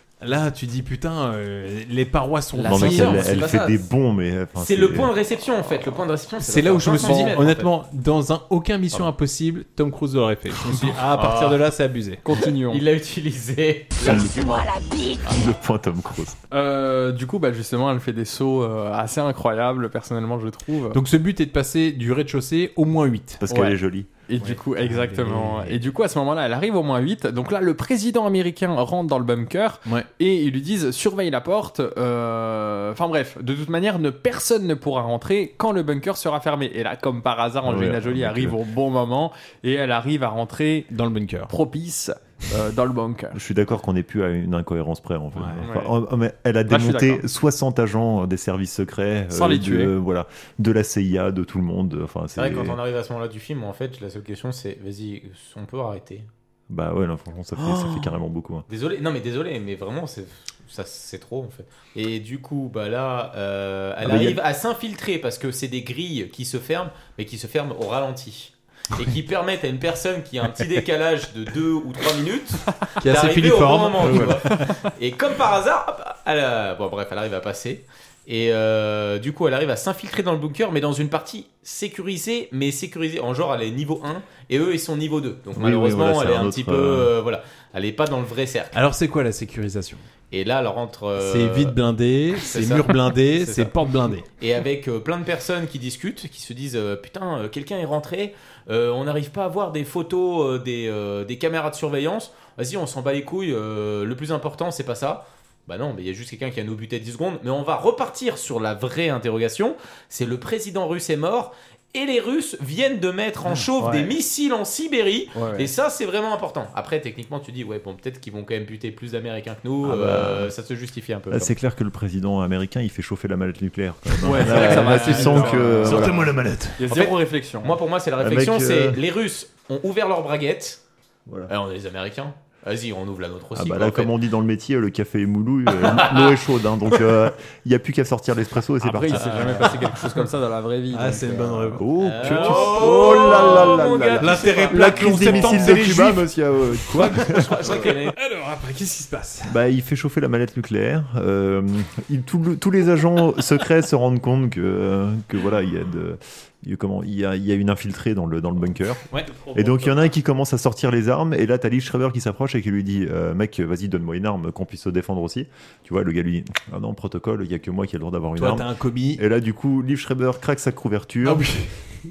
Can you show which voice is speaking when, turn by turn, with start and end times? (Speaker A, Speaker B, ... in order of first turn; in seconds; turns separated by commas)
Speaker A: 0.2-3.4, Speaker B: 2.5-3.9, Speaker C: 2.6-5.1, Speaker B: 4.6-7.7, Speaker A: 6.4-12.2, Speaker D: 6.9-7.4, Speaker B: 11.1-11.7, Speaker D: 12.2-12.8, Speaker B: 12.4-14.8, Speaker C: 14.0-16.4, Speaker D: 16.5-21.0, Speaker A: 20.9-23.4, Speaker C: 23.4-24.1, Speaker D: 23.5-40.9, Speaker A: 24.4-25.8, Speaker C: 37.6-38.6, Speaker A: 40.9-41.5, Speaker D: 41.5-43.4, Speaker C: 43.3-52.8, Speaker A: 45.3-45.6, Speaker D: 45.6-45.9, Speaker D: 46.7-47.2, Speaker D: 49.3-49.9, Speaker B: 52.4-56.3, Speaker C: 56.7-58.6, Speaker D: 57.6-57.9, Speaker B: 58.7-88.7, Speaker C: 64.0-64.4, Speaker A: 73.0-74.7, Speaker D: 74.1-74.7, Speaker C: 85.5-87.1, Speaker A: 88.7-90.0, Speaker B: 90.3-91.8, Speaker A: 91.2-94.2, Speaker B: 92.4-93.8, Speaker B: 94.3-121.5, Speaker D: 115.3-115.7, Speaker C: 119.8-120.5, Speaker C: 121.3-126.3, Speaker D: 124.2-126.1, Speaker B: 124.4-125.8, Speaker A: 124.7-125.1, Speaker A: 125.8-126.8, Speaker D: 126.8-127.7, Speaker B: 126.9-130.8, Speaker C: 128.2-129.0, Speaker B: 131.5-134.1, Speaker C: 133.5-139.9, Speaker B: 135.9-136.4, Speaker D: 138.8-141.6, Speaker B: 139.1-139.9, Speaker A: 140.9-142.3, Speaker C: 141.8-147.7, Speaker B: 142.0-145.7, Speaker A: 144.2-149.6, Speaker B: 147.2-148.1, Speaker C: 149.5-171.5, Speaker A: 159.1-160.1, Speaker A: 168.3-169.2, Speaker A: 171.2-171.7